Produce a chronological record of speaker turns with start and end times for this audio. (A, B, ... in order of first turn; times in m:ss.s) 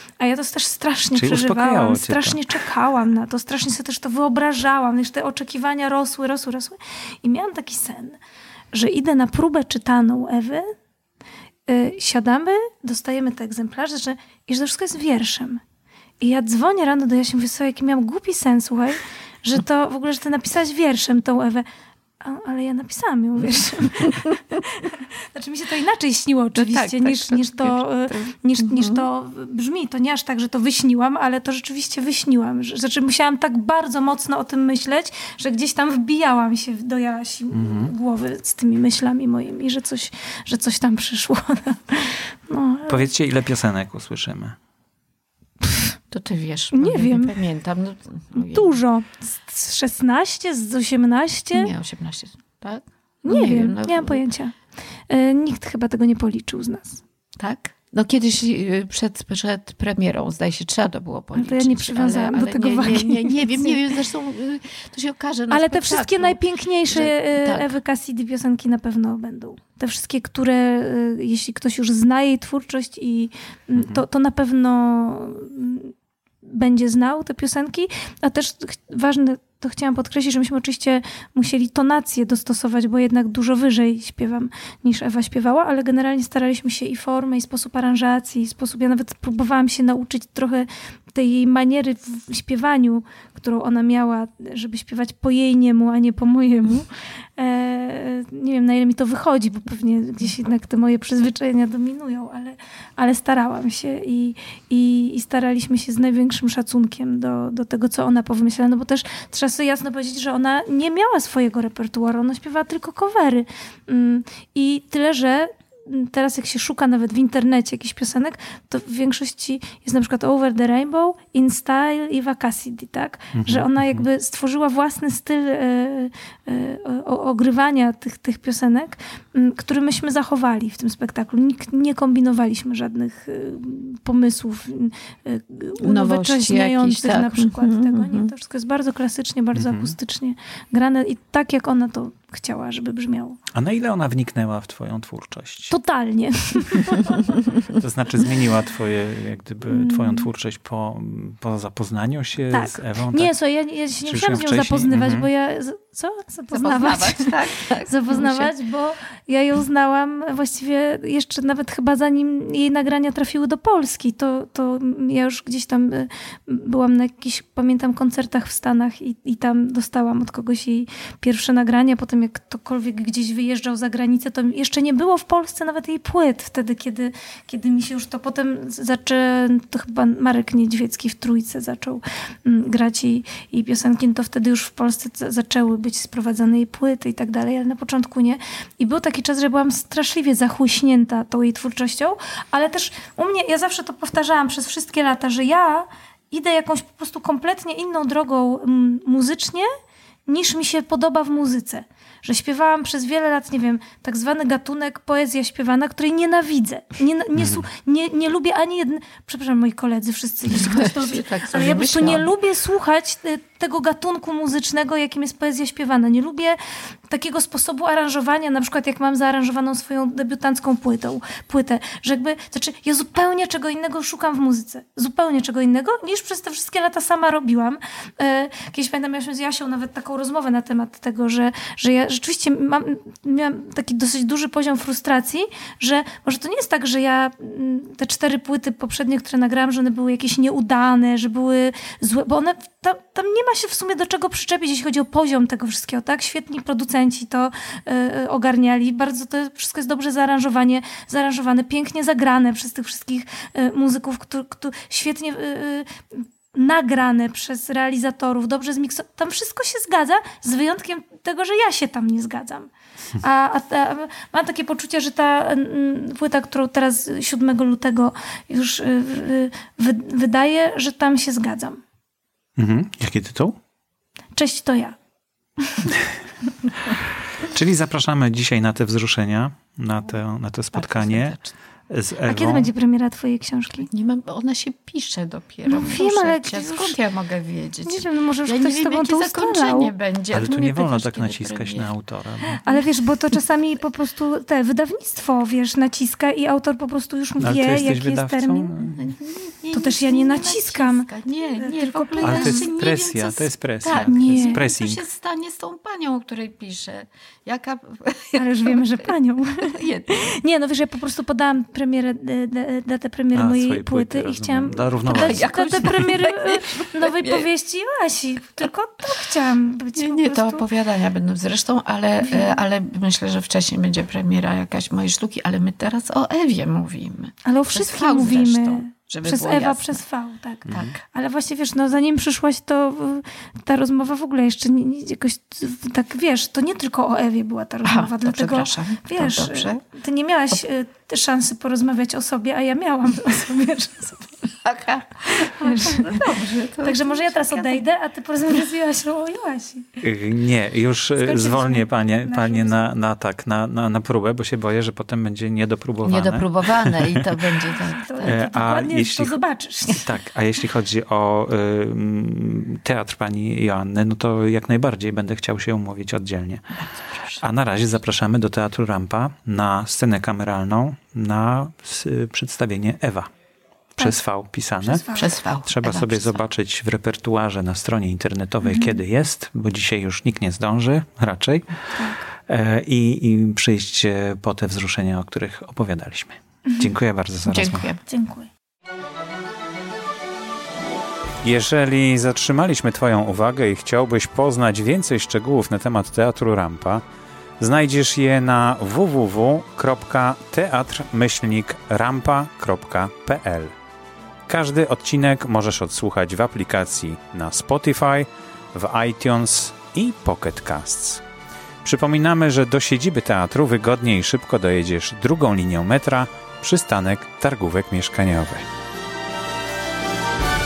0:00.2-0:08.2 A
0:01.1-0:02.6 B
0:08.7-0:10.7 A
0:11.7-0:15.6 A
0:16.2-0:21.6 A
0:22.2-0:43.1 A
0:26.6-0:29.1 C
0:37.5-0:37.9 B
0:42.9-0:44.6 B
0:45.6-0:45.9 A
0:46.1-0:48.8 C
0:46.7-0:47.4 A
0:48.4-0:51.7 A
0:51.5-0:54.2 C
0:53.2-0:54.5 A
0:55.1-0:57.0 A
0:57.4-1:07.8 C
1:01.4-1:03.8 A
1:05.5-2:23.4 A
1:13.8-1:14.0 B
2:03.3-2:04.0 B
2:15.8-2:18.3 C
2:19.5-2:20.0 B
2:23.5-2:25.7 B
2:25.7-2:27.5 A
2:27.7-2:33.3 B
2:29.7-2:30.3 A
2:32.5-3:19.7 A
2:34.0-2:35.3 B
2:36.5-2:38.5 C
3:20.3-4:22.7 A
3:27.4-3:27.6 B
3:30.5-3:32.3 C
4:23.2-4:31.8 A
4:32.6-4:33.6 B
4:34.4-4:35.0 A
4:35.6-4:35.9 A
4:36.9-4:41.4 B
4:40.7-4:41.6 C
4:41.9-4:42.7 B
4:42.3-4:43.9 A
4:43.9-4:51.9 C
4:45.7-4:47.0 A
4:47.8-4:49.9 A
4:50.3-4:52.6 B
4:52.6-4:58.7 A
4:57.4-4:59.0 B
4:59.0-5:10.4 C
4:59.7-5:02.7 A
5:02.2-5:05.0 B
5:03.9-5:04.6 A
5:08.4-5:20.6 A
5:13.3-5:15.5 B
5:15.1-5:17.5 C
5:20.0-5:30.0 C
5:22.2-5:22.6 A
5:27.4-5:44.5 A
5:30.7-5:31.0 C
5:37.8-5:39.8 C
5:44.6-5:47.8 C
5:45.4-5:50.0 A
5:50.0-5:57.2 B
5:51.2-5:52.9 A
5:56.0-5:58.4 C
5:57.8-6:00.1 A
5:58.2-5:59.4 B
6:00.0-6:06.7 B
6:06.8-6:07.4 C
6:07.4-6:13.3 B
6:14.0-6:15.1 B
6:14.8-6:15.3 A
6:15.1-6:16.4 C
6:15.6-6:21.8 B
6:18.7-6:18.9 A
6:22.0-6:22.2 A
6:22.5-6:27.9 B
6:27.5-6:28.0 C
6:28.1-6:28.5 A
6:31.4-6:37.0 B
6:37.6-6:43.7 B
6:44.5-6:51.2 B
6:51.8-6:58.7 B